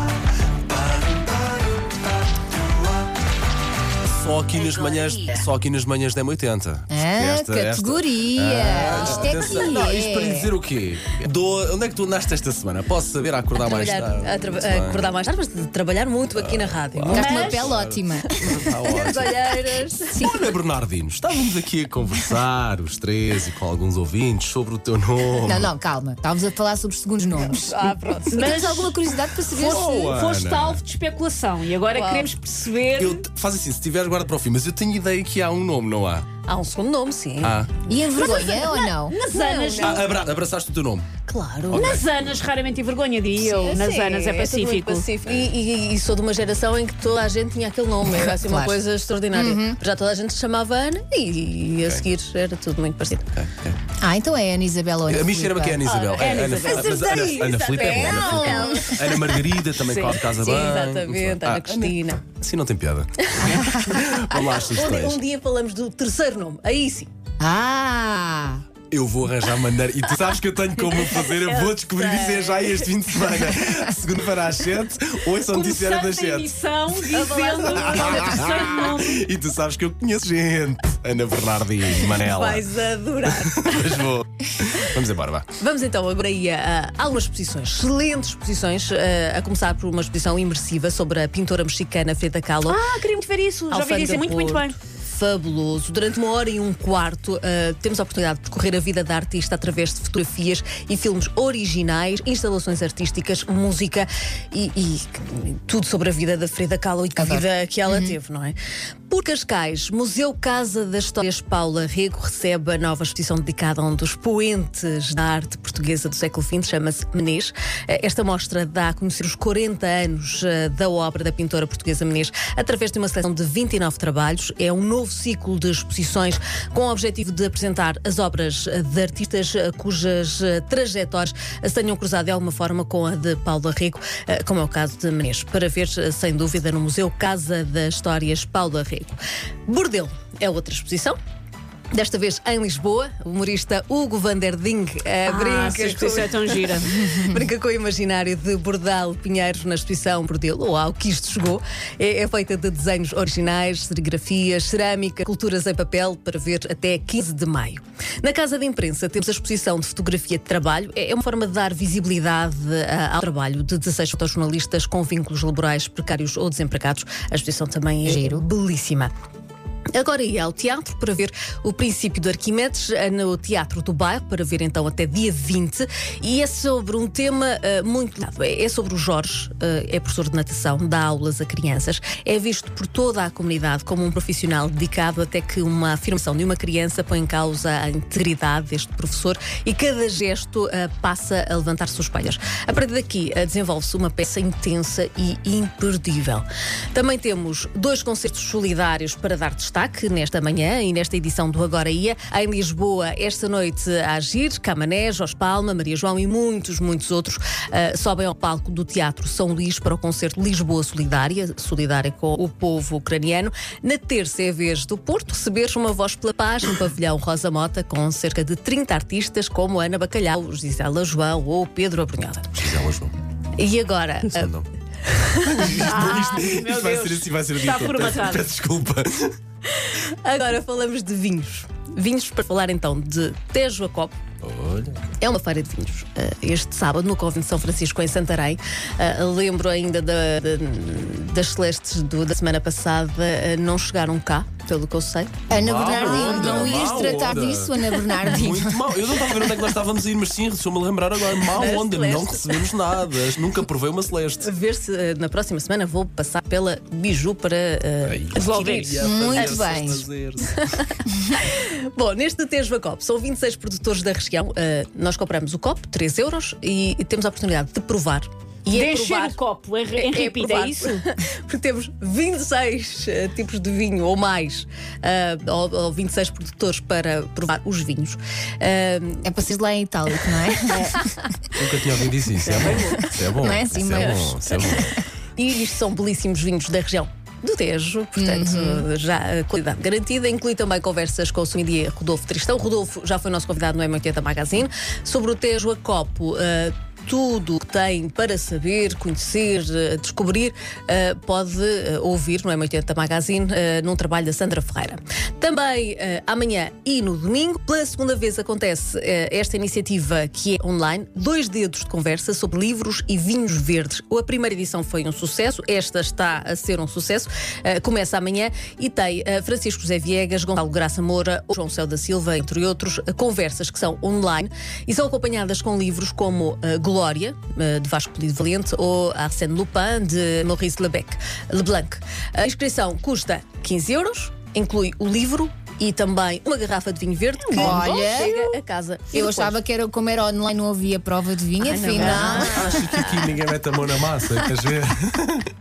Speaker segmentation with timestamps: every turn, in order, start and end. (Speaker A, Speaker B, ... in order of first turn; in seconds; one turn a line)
Speaker A: 0.7-1.2
Speaker A: 4.1-15.1
Speaker B: 6.9-10.5
Speaker C: 13.6-17.4
Speaker A: 16.3-19.6
Speaker B: 17.1-18.4
Speaker D: 17.1-17.7
Speaker C: 18.5-20.4
Speaker B: 20.1-20.4
Speaker A: 20.1-25.7
Speaker B: 25.4-29.8
Speaker C: 27.3-28.8
Speaker D: 28.3-33.2
Speaker A: 29.6-30.8
Speaker C: 31.9-32.3
Speaker A: 33.0-36.3
Speaker C: 36.5-38.6
Speaker A: 37.4-37.8
Speaker B: 37.9-39.2
Speaker D: 38.1-40.2
Speaker C: 39.1-40.1
Speaker A: 39.8-41.1
Speaker C: 41.3-42.0
Speaker D: 41.7-45.1
Speaker A: 41.7-42.1
Speaker C: 43.4-53.3
Speaker A: 45.2-45.5
Speaker B: 48.0-48.8
Speaker B: 49.3-49.8
Speaker A: 51.8-52.1
Speaker A: 53.3-53.8
Speaker B: 54.0-55.8
Speaker A: 55.1-65.2
Speaker C: 55.8-59.2
Speaker D: 56.1-58.5
Speaker B: 58.0-59.1
Speaker D: 59.8-60.2
Speaker C: 60.3-62.2
Speaker B: 63.6-64.0
Speaker C: 64.5-67.1
Speaker B: 67.4-68.6
Speaker A: 68.9-76.5
Speaker C: 71.2-72.9
Speaker D: 75.5-79.2
Speaker C: 77.1-78.4
Speaker A: 77.6-82.7
Speaker C: 82.1-84.2
Speaker A: 83.2-85.5
Speaker C: 84.7-85.0
Speaker C: 85.6-92.8
Speaker D: 92.7-94.8
Speaker C: 93.7-108.6
Speaker B: 107.2-108.2
Speaker C: 109.1-141.2
Speaker C: 141.9-169.1
Speaker D: 145.3-147.0
Speaker B: 168.1-168.4
Speaker C: 169.9-222.5
Speaker A: 222.6-223.2
Speaker C: 223.6-224.5
Speaker A: 224.3-224.7
Speaker C: 225.1-225.9
Speaker A: 225.4-229.4
Speaker D: 225.8-228.5
Speaker C: 229.7-234.2
Speaker A: 234.4-235.0
Speaker C: 235.2-247.4
Speaker B: 245.5-249.3
Speaker A: 245.5-254.5
Speaker D: 245.8-246.6
Speaker C: 251.4-252.7
Speaker C: 254.4-259.8
Speaker A: 258.0-260.6
Speaker D: 258.3-259.0
Speaker B: 259.0-260.1
Speaker C: 260.5-269.4
Speaker D: 268.7-271.0
Speaker C: 269.9-279.3
Speaker B: 279.2-281.2
Speaker D: 280.7-281.0
Speaker A: 281.6-285.0
Speaker D: 282.4-283.1
Speaker B: 282.9-285.0
Speaker C: 285.4-339.6
Speaker B: 288.2-288.9
Speaker D: 337.5-338.6
Speaker B: 337.6-338.3
Speaker B: 339.1-342.9
Speaker C: 341.6-342.9
Speaker A: 342.0-345.5
Speaker D: 342.0-342.4